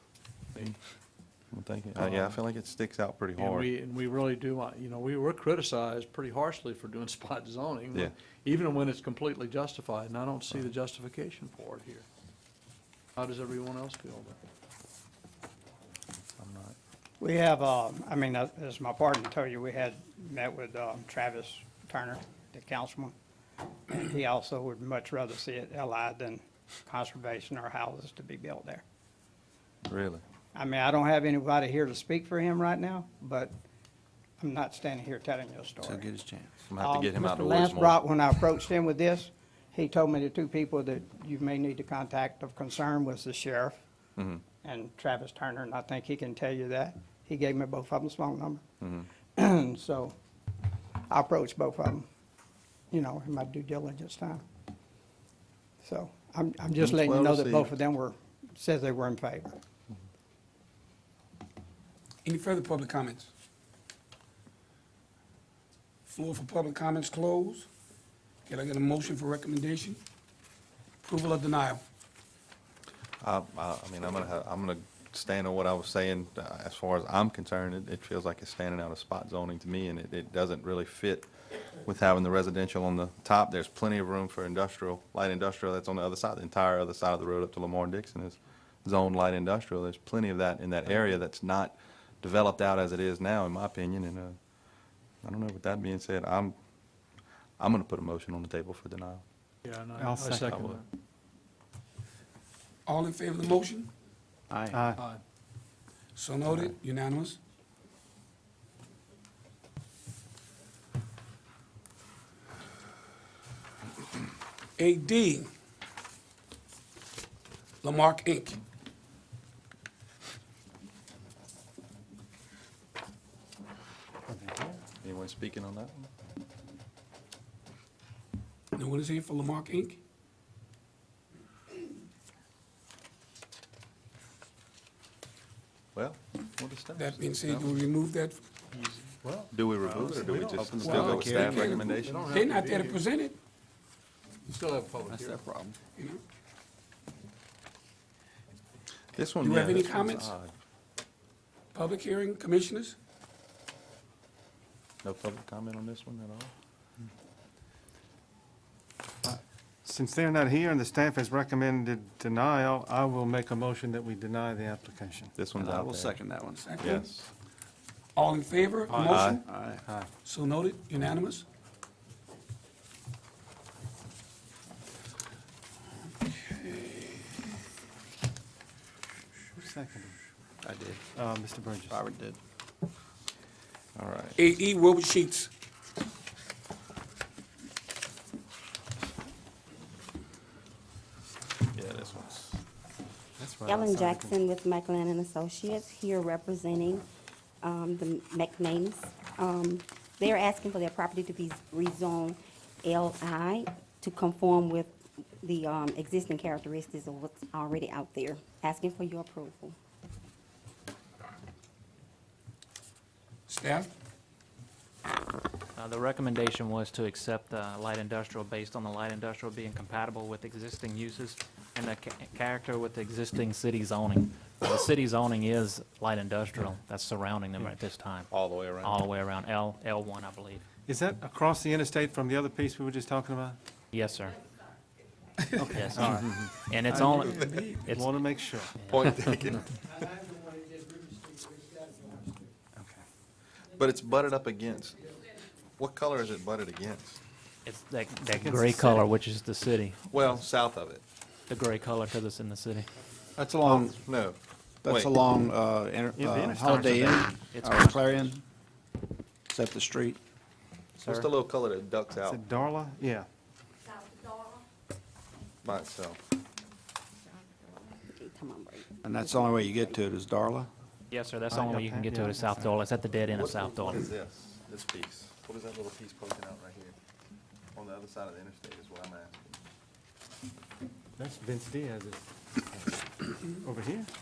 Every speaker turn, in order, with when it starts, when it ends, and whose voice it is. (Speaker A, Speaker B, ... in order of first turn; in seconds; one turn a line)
Speaker A: 1.5-3.7
Speaker B: 2.0-2.4
Speaker B: 3.4-12.1
Speaker B: 13.2-14.4
Speaker A: 16.4-16.8
Speaker C: 17.2-23.1
Speaker C: 23.9-28.8
Speaker A: 29.9-30.2
Speaker C: 30.5-33.5
Speaker C: 34.4-36.1
Speaker D: 35.8-36.6
Speaker A: 36.7-38.0
Speaker C: 36.8-43.8
Speaker A: 44.2-44.4
Speaker C: 44.6-48.6
Speaker A: 48.8-49.1
Speaker C: 49.4-50.1
Speaker C: 51.1-52.1
Speaker C: 52.9-54.4
Speaker C: 55.8-59.5
Speaker A: 56.8-57.7
Speaker E: 62.2-63.3
Speaker E: 66.1-67.7
Speaker E: 68.5-70.0
Speaker E: 71.0-71.8
Speaker A: 73.2-81.3
Speaker A: 81.8-94.4
Speaker A: 95.2-96.5
Speaker A: 97.6-99.2
Speaker B: 99.6-100.8
Speaker F: 100.0-100.6
Speaker A: 100.4-100.8
Speaker E: 102.8-103.9
Speaker D: 104.5-104.8
Speaker F: 104.7-105.0
Speaker B: 104.9-105.2
Speaker E: 106.2-107.4
Speaker E: 114.8-115.5
Speaker E: 117.8-118.6
Speaker F: 124.3-124.8
Speaker A: 125.0-126.1
Speaker E: 128.7-130.0
Speaker A: 135.9-137.4
Speaker E: 136.9-138.4
Speaker B: 138.7-139.3
Speaker D: 139.2-141.9
Speaker A: 139.5-142.2
Speaker B: 139.9-143.1
Speaker E: 141.5-143.3
Speaker B: 144.5-145.4
Speaker D: 145.1-145.7
Speaker E: 145.9-146.2
Speaker A: 149.1-150.5
Speaker E: 149.4-150.3
Speaker E: 151.7-152.9
Speaker A: 155.0-156.5
Speaker F: 159.2-165.3
Speaker A: 165.4-166.2
Speaker D: 165.5-166.8
Speaker E: 166.6-167.1
Speaker A: 166.8-167.3
Speaker E: 168.2-169.4
Speaker D: 168.9-169.8
Speaker A: 169.0-169.4
Speaker F: 169.7-170.1
Speaker E: 170.2-171.4
Speaker E: 176.3-177.0
Speaker F: 179.5-180.2
Speaker D: 180.6-181.0
Speaker F: 181.1-182.0
Speaker D: 181.9-182.4
Speaker A: 183.9-184.4
Speaker E: 184.4-185.5
Speaker A: 191.7-192.6
Speaker F: 193.4-194.4
Speaker G: 193.6-197.0
Speaker G: 197.6-209.8
Speaker E: 213.5-213.9
Speaker H: 215.8-228.3
Speaker A: 228.3-229.0
Speaker H: 228.8-230.6
Speaker F: 230.8-233.6
Speaker H: 233.9-234.4
Speaker F: 235.5-238.8
Speaker H: 235.7-238.2
Speaker A: 236.1-236.5
Speaker E: 237.0-237.8
Speaker A: 238.9-239.7
Speaker F: 242.8-243.0
Speaker A: 243.7-245.2
Speaker A: 245.8-247.2
Speaker H: 247.6-250.2
Speaker F: 248.3-248.9
Speaker A: 248.8-249.0
Speaker A: 250.1-251.0
Speaker H: 251.5-252.9
Speaker D: 253.3-253.9
Speaker A: 253.6-255.2
Speaker D: 254.8-258.4
Speaker H: 256.2-258.3
Speaker A: 256.2-257.3
Speaker D: 259.5-260.2
Speaker A: 261.0-262.4
Speaker F: 262.2-263.3
Speaker A: 265.6-266.2
Speaker G: 268.1-269.9
Speaker D: 269.0-270.7
Speaker H: 271.1-274.1
Speaker F: 271.5-272.8
Speaker A: 273.2-276.9
Speaker A: 277.7-279.6
Speaker F: 281.2-282.3
Speaker F: 283.5-284.1